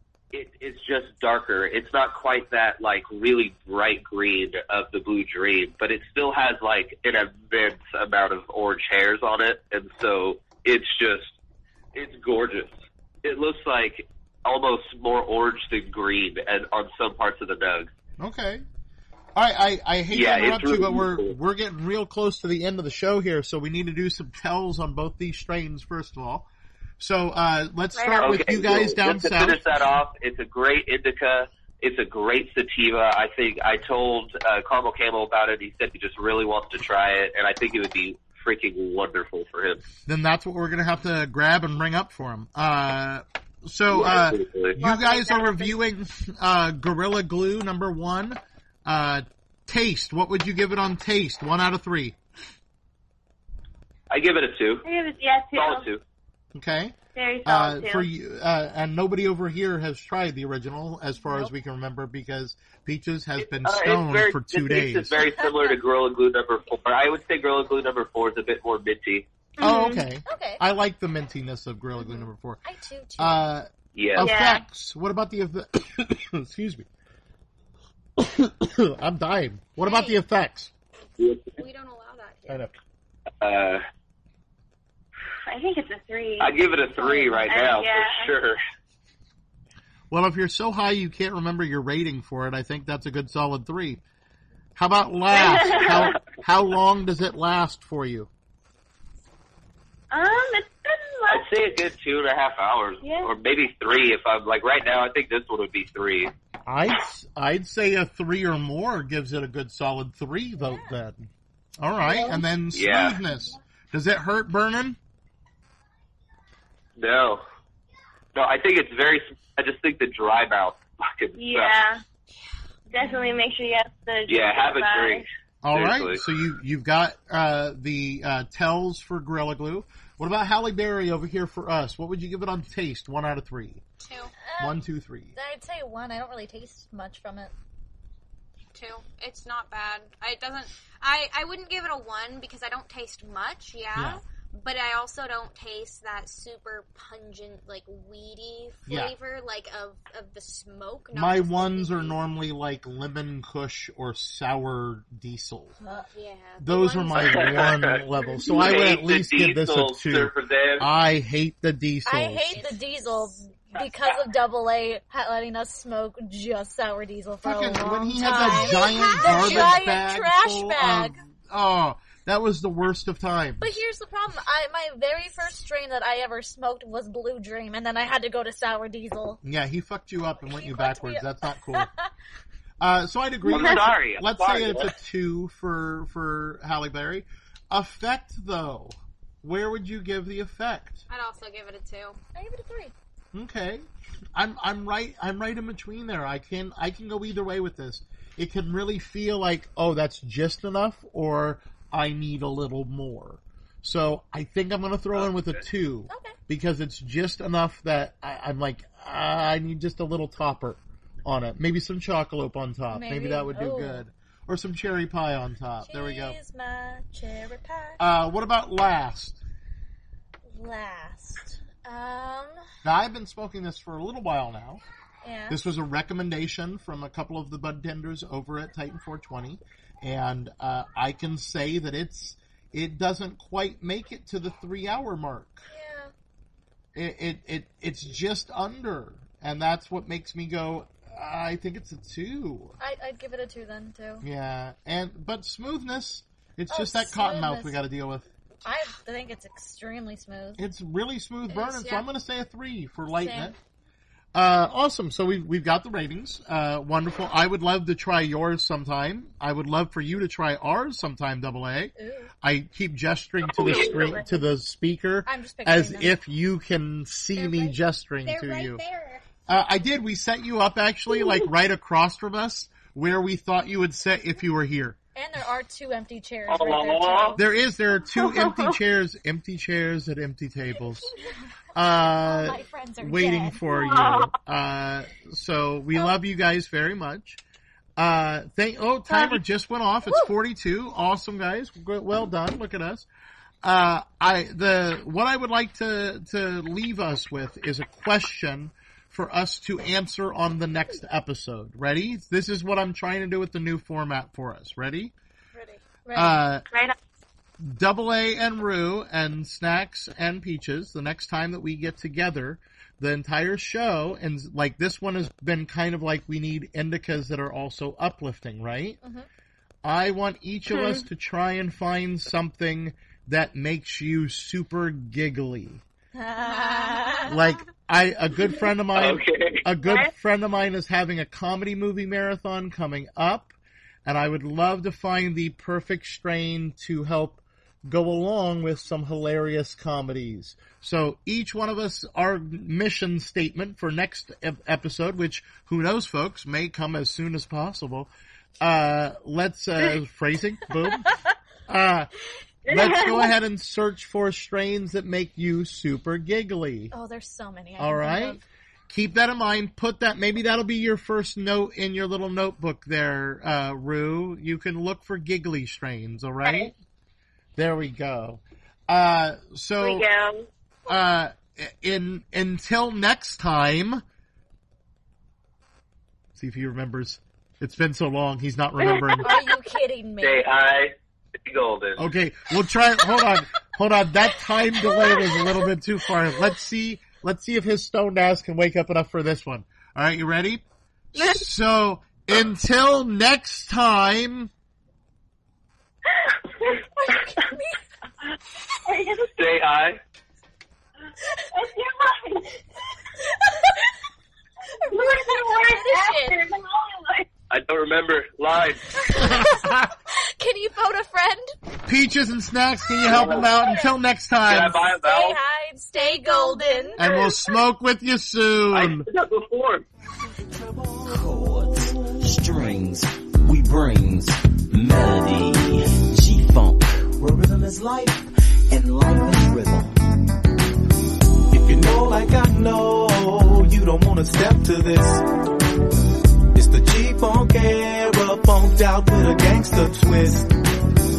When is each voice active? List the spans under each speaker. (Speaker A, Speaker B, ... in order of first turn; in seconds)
Speaker A: 0.3-11.3, 11.9-17.9, 20.1-21.3, 28.2-39.9, 43.9-44.8, 54.1-54.9, 55.5-56.0, 63.4-69.2, 74.0-74.4, 81.2-81.5, 83.4-83.8, 86.4-88.6, 101.3-106.3, 112.7-113.2, 117.0-117.4, 118.3-121.8, 124.2-126.2, 157.3-158.0, 158.5-160.9, 183.4-184.9, 205.2-205.5, 263.5-264.1, 276.5-277.4, 328.9-329.6, 380.2-382.1, 399.3-400.0, 407.5-408.9, 413.0-413.5, 414.4-415.4, 418.7-419.8
Speaker B: 18.2-18.6, 19.3-26.5, 27.0-29.6, 40.0-52.1, 56.5-65.3, 69.6-72.6, 73.2-76.9, 78.2-80.7, 90.1-94.0, 94.7-98.3, 106.7-115.0, 125.6-133.8, 134.6-135.3, 143.9-144.2, 148.9-149.1, 151.1-155.8, 156.6-162.6, 167.4-173.8, 179.4-181.9, 182.8-191.0, 193.3-216.4, 218.0-219.4, 222.8-224.8, 225.5-235.6, 236.9-242.7, 244.2-248.3, 250.6-253.5, 254.3-268.8, 269.5-275.0, 277.4-281.1, 281.7-287.4, 288.0-293.1, 293.6-305.1, 306.1-306.6, 307.6-319.0, 319.8-325.8, 327.3-333.5, 334.0-351.1, 351.7-352.1, 352.7-356.9, 357.8-366.7, 367.6-370.1, 370.9-374.0, 376.3-379.3, 382.0-390.6, 391.1-394.5, 409.2-409.9, 411.9-414.8, 417.0-419.1
Speaker C: 27.9-28.4, 44.8-45.7, 54.8-55.9, 57.1-58.1, 69.6-70.1, 74.2-74.6, 85.5-88.3, 95.3-96.2, 100.1-101.5, 103.0-103.3, 112.0-112.4, 121.3-122.0, 122.9-125.2, 263.6-264.4, 278.1-278.8, 289.1-289.4, 320.7-321.0, 326.5-327.1, 329.8-330.1, 352.6-353.3, 366.4-366.7, 369.8-370.5, 378.8-379.2, 398.9-399.3, 401.5-402.6, 404.8-407.3, 415.9-417.5
Speaker D: 61.2-61.5, 70.2-70.6, 72.0-73.5, 110.6-110.9, 134.4-134.8, 135.3-137.5, 155.8-156.1, 162.1-171.2, 173.6-179.4, 180.4-182.1, 192.3-192.9, 206.1-206.3, 212.9-214.0, 215.8-218.0, 220.5-222.6, 225.2-225.6, 235.7-236.1, 242.8-244.2, 246.7-247.8, 248.6-250.6, 251.5-252.0, 253.1-253.6, 262.0-262.3, 265.2-266.1, 275.1-277.4, 282.0-283.6, 290.1-290.3, 306.0-306.4, 319.0-319.3, 326.1-327.4, 356.9-358.4, 379.2-380.5, 404.8-406.4, 409.1-411.5, 415.0-417.0
Speaker E: 79.8-80.2, 81.6-82.7, 134.0-134.3, 138.7-152.2, 156.0-157.9, 162.6-163.1, 191.1-192.2, 267.3-269.2
Speaker F: 420.5-422.6, 431.5-435.2, 436.5-440.5
Speaker G: 421.0-430.0